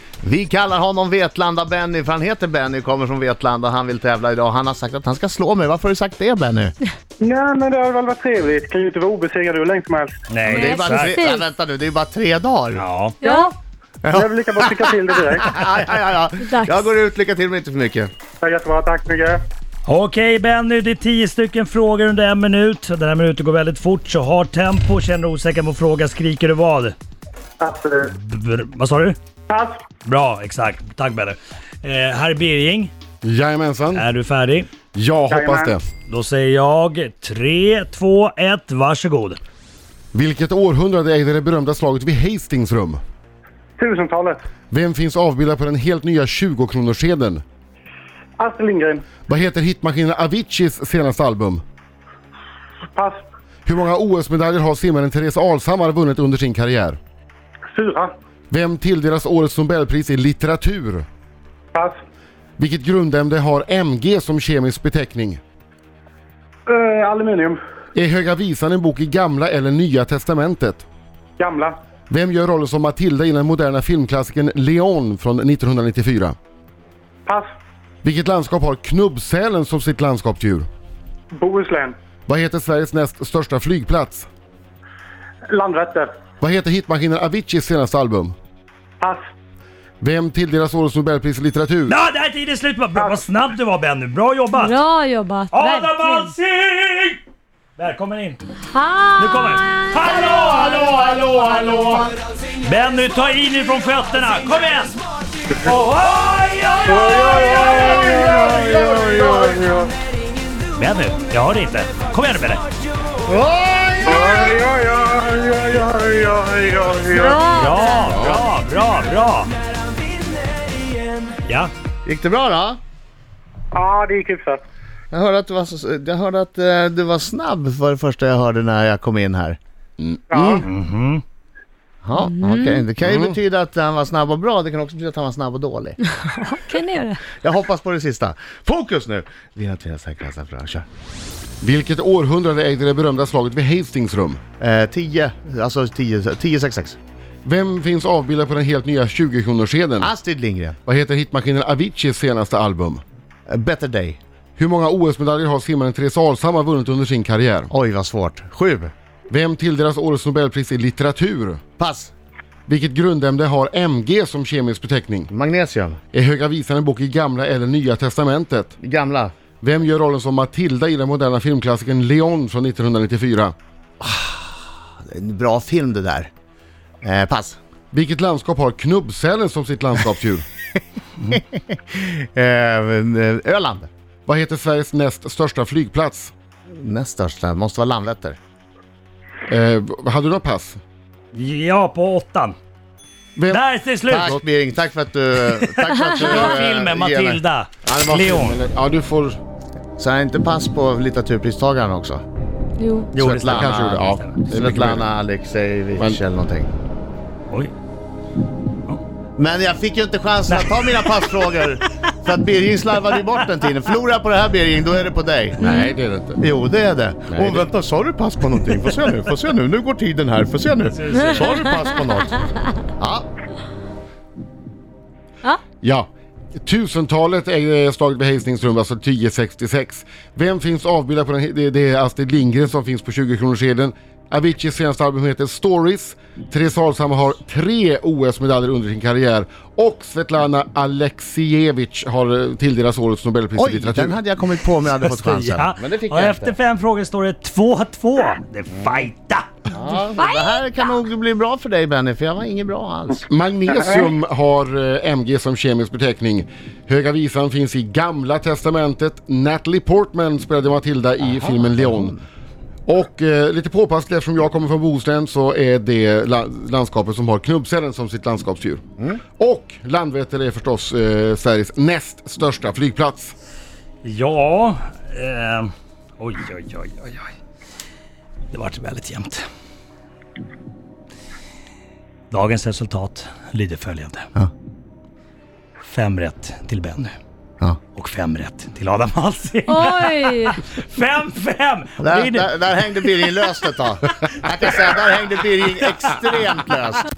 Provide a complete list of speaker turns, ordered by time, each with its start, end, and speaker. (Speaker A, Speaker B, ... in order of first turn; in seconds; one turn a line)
Speaker A: 0.2-6.7
Speaker B: 7.2-10.1
Speaker C: 10.3-11.2
Speaker A: 10.4-12.8
Speaker D: 10.5-11.4
Speaker C: 12.8-13.2
Speaker D: 13.2-13.5
Speaker B: 13.2-13.5
Speaker A: 14.0-18.1
Speaker B: 14.1-15.6
Speaker D: 16.4-16.8
Speaker B: 18.4-19.4
Speaker C: 19.9-26.9
Speaker B: 27.6-28.1
Speaker C: 28.1-29.1
Speaker B: 29.5-29.8
Speaker C: 30.0-32.9
Speaker E: 33.2-34.1
Speaker C: 33.9-34.7
Speaker E: 34.9-35.8
Speaker B: 35.3-35.7
Speaker C: 36.1-39.4
Speaker E: 40.1-43.0
Speaker B: 43.8-44.4
Speaker E: 44.7-47.4
Speaker B: 48.4-49.0
Speaker E: 49.2-51.6
Speaker B: 52.9-53.2
Speaker E: 53.6-57.0
Speaker B: 57.7-58.1
Speaker E: 58.5-61.0
Speaker E: 62.6-65.4
Speaker B: 66.7-67.6
Speaker E: 67.9-70.8
Speaker B: 71.4-71.7
Speaker E: 72.1-76.3
Speaker E: 78.0-80.7
Speaker B: 81.3-81.9
Speaker E: 82.3-84.3
Speaker B: 85.5-86.1
Speaker E: 86.4-88.3
Speaker E: 90.0-92.0
Speaker C: 91.9-94.8
Speaker B: 93.0-93.2
Speaker D: 94.5-96.3
Speaker C: 95.5-97.2
Speaker C: 97.8-98.5
Speaker D: 98.6-100.9
Speaker C: 99.1-105.0
Speaker C: 105.5-108.6
Speaker B: 106.9-109.9
Speaker A: 108.1-109.3
Speaker C: 110.7-112.6
Speaker A: 113.3-114.6
Speaker B: 114.0-117.6
Speaker D: 117.2-118.1
Speaker C: 117.5-119.5
Speaker C: 121.4-121.7
Speaker A: 122.0-122.8
Speaker B: 123.7-124.6
Speaker A: 125.1-129.6
Speaker B: 130.3-130.7
Speaker A: 130.3-130.6
Speaker C: 130.6-131.2
Speaker A: 132.0-136.0
Speaker D: 132.1-132.9
Speaker E: 133.0-133.3
Speaker D: 136.0-137.3
Speaker A: 137.3-140.8
Speaker E: 141.6-144.4
Speaker A: 144.6-147.0
Speaker E: 147.4-150.1
Speaker A: 150.0-150.8
Speaker E: 150.8-153.0
Speaker A: 153.5-154.2
Speaker E: 154.6-157.7
Speaker A: 157.7-158.9
Speaker E: 159.3-161.6
Speaker A: 161.8-162.1
Speaker E: 162.7-165.3
Speaker A: 165.3-166.0
Speaker E: 166.1-168.7
Speaker A: 168.8-169.3
Speaker E: 169.6-173.5
Speaker A: 174.0-176.3
Speaker A: 177.0-177.6
Speaker E: 177.9-180.4
Speaker A: 181.3-183.9
Speaker E: 184.2-186.3
Speaker A: 186.7-188.4
Speaker E: 189.5-190.8
Speaker C: 191.3-192.6
Speaker E: 193.3-194.4
Speaker C: 193.5-194.3
Speaker A: 194.1-197.4
Speaker C: 195.5-198.6
Speaker E: 197.8-199.4
Speaker A: 200.0-202.2
Speaker D: 202.8-203.1
Speaker C: 203.1-204.4
Speaker A: 203.2-206.7
Speaker E: 203.5-205.1
Speaker A: 209.4-215.6
Speaker C: 210.5-211.3
Speaker E: 215.6-216.4
Speaker D: 215.6-215.9
Speaker A: 216.4-223.3
Speaker E: 217.3-217.7
Speaker C: 221.0-221.6
Speaker E: 225.8-244.2
Speaker A: 243.6-246.6
Speaker C: 244.9-249.7
Speaker A: 249.7-253.2
Speaker D: 250.2-250.6
Speaker E: 253.2-262.2
Speaker A: 261.2-262.2
Speaker E: 262.9-268.8
Speaker E: 269.4-273.3
Speaker C: 274.0-277.3
Speaker C: 278.5-279.4
Speaker C: 282.3-284.3
Speaker C: 285.9-287.1
Speaker C: 287.9-293.4
Speaker D: 289.6-290.6
Speaker A: 292.0-297.1
Speaker C: 294.1-294.9